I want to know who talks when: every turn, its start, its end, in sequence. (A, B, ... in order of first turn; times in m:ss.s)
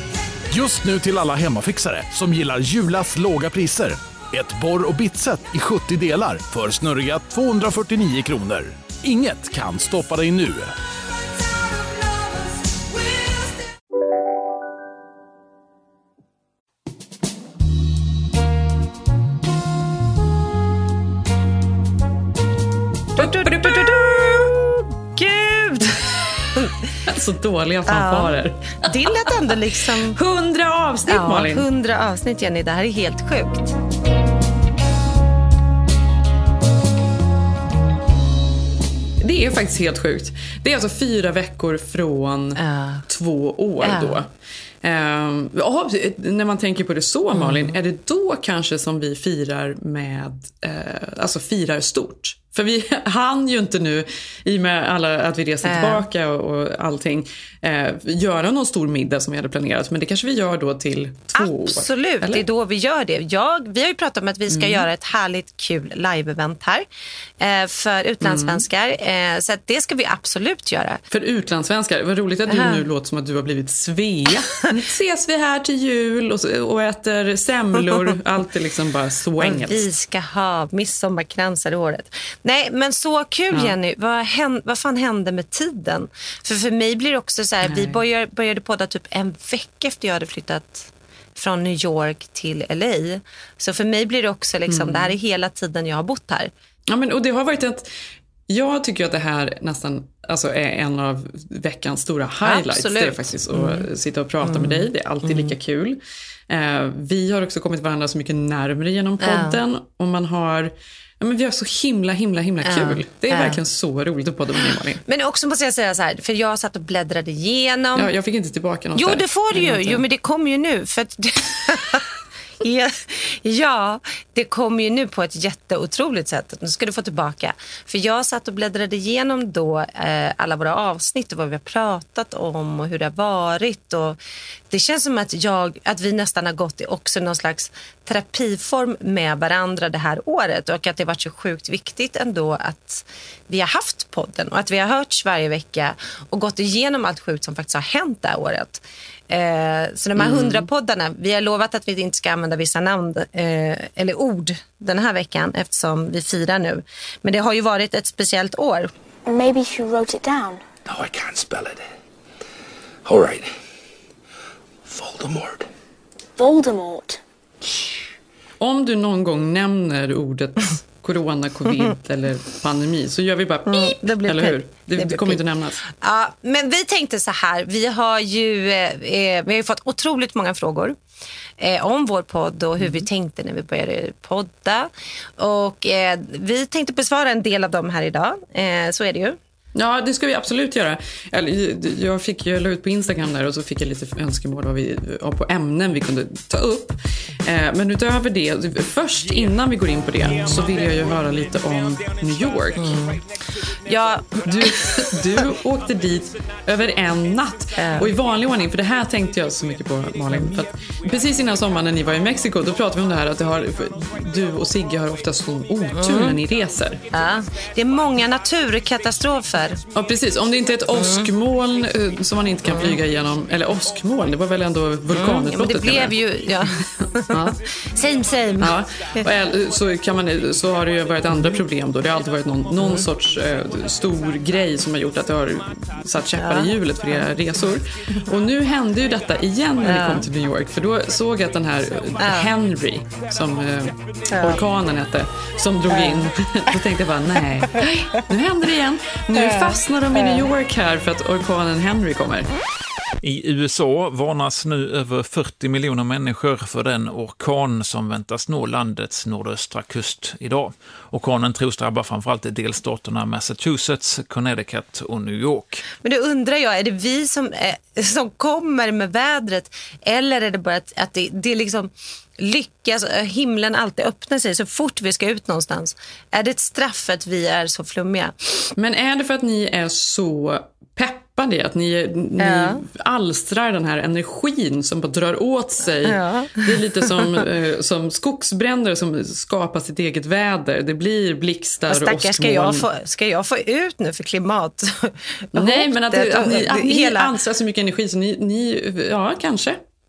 0:00.5-0:10.7 A
0:23.2-0:24.4 B
0:23.2-0:26.7 C
0:27.0-0:29.3 B
0:27.9-0:30.2 C
0:30.1-0:31.7 B
0:31.1-0:33.8 C
0:39.2-0:44.3 B
0:42.6-0:43.0 C
0:43.8-0:44.2 C
0:44.8-1:02.5 B
0:47.3-0:47.8 C
0:55.6-0:56.1 C
1:01.4-1:06.9 C
1:04.5-1:04.9 B
1:07.4-1:11.0 C
1:08.2-1:08.6 B
1:11.1-1:19.9 B
1:12.5-1:12.8 C
1:19.4-1:36.5 C
1:27.6-1:28.0 B
1:34.7-1:35.2 B
1:36.9-1:37.9 B
1:38.5-1:55.0 B
1:42.4-1:43.9 C
1:44.4-1:45.6 C
1:49.2-1:49.6 C
1:52.6-1:53.6 C
1:55.0-1:58.1 C
1:58.0-2:00.0 B
1:59.0-2:02.1 C
2:02.6-2:38.9 C
2:30.2-2:30.7 B
2:39.3-2:40.6 D
2:40.9-2:41.9 E
2:43.0-2:43.5 E
2:44.9-2:45.6 E
2:46.4-2:47.2 D
2:48.6-2:55.8 B
2:53.7-2:55.4 C
2:55.9-3:01.0 C
3:01.6-3:09.4 C
3:02.8-3:03.1 B
3:09.8-3:23.0 B
3:20.2-3:20.7 C
3:22.8-3:23.2 C
3:23.8-3:25.0 C
3:24.4-3:37.0 B
3:27.8-3:28.1 C
3:30.3-3:30.6 C
3:35.9-3:36.4 C
3:37.1-3:39.8 C
3:39.9-3:46.2 B
3:40.9-3:41.3 C
3:42.6-3:43.0 C
3:45.1-3:49.3 C
3:48.6-4:12.5 B
3:51.3-3:51.6 C
3:52.8-3:53.1 C
3:56.4-3:57.2 C
3:59.8-4:00.3 C
4:02.2-4:02.6 C
4:04.3-4:04.6 C
4:05.9-4:06.3 C
4:09.3-4:10.5 C
4:13.2-4:25.9 F
4:26.0-4:38.7 C
4:38.8-4:52.9 B
4:42.4-4:42.8 C
4:46.0-4:47.4 C
4:51.9-4:57.4 C
4:55.6-4:59.8 B